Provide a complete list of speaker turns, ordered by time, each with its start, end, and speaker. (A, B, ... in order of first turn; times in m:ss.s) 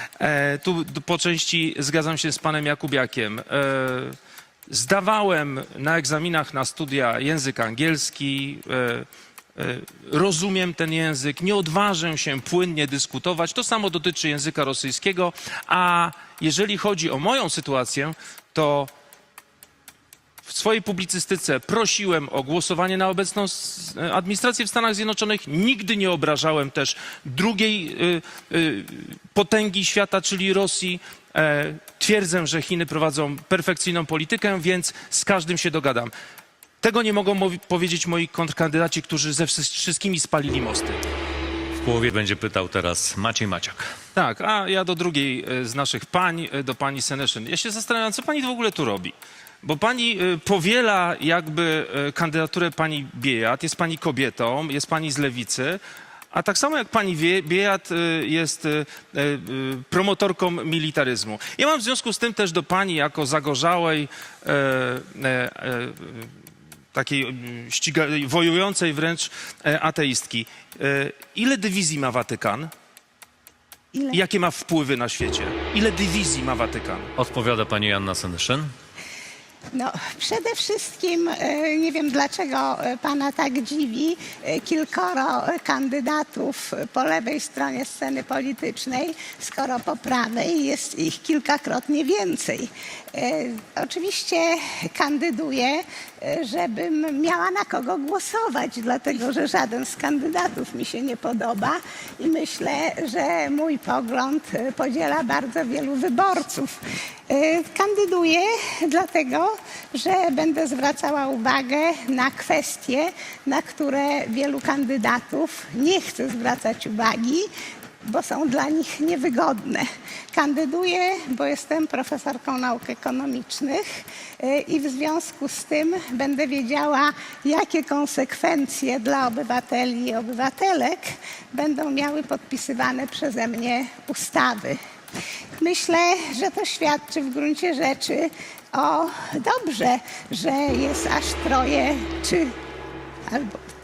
0:00.2-0:04.2 A
0:04.7-0:18.9 A
0:20.4-0:36.1 A
0:36.8-0:41.0 A
0:41.8-0:43.9 B
0:44.2-0:55.8 A
0:56.3-1:06.3 A
1:06.9-1:12.7 A
1:13.9-1:14.2 C
1:14.1-1:17.1 A
1:17.2-1:18.7 B
1:19.7-1:46.7 C
1:47.3-1:57.5 C
1:58.0-2:03.8 C
2:04.4-2:14.8 C
2:15.6-2:22.5 C
2:23.3-2:23.5 C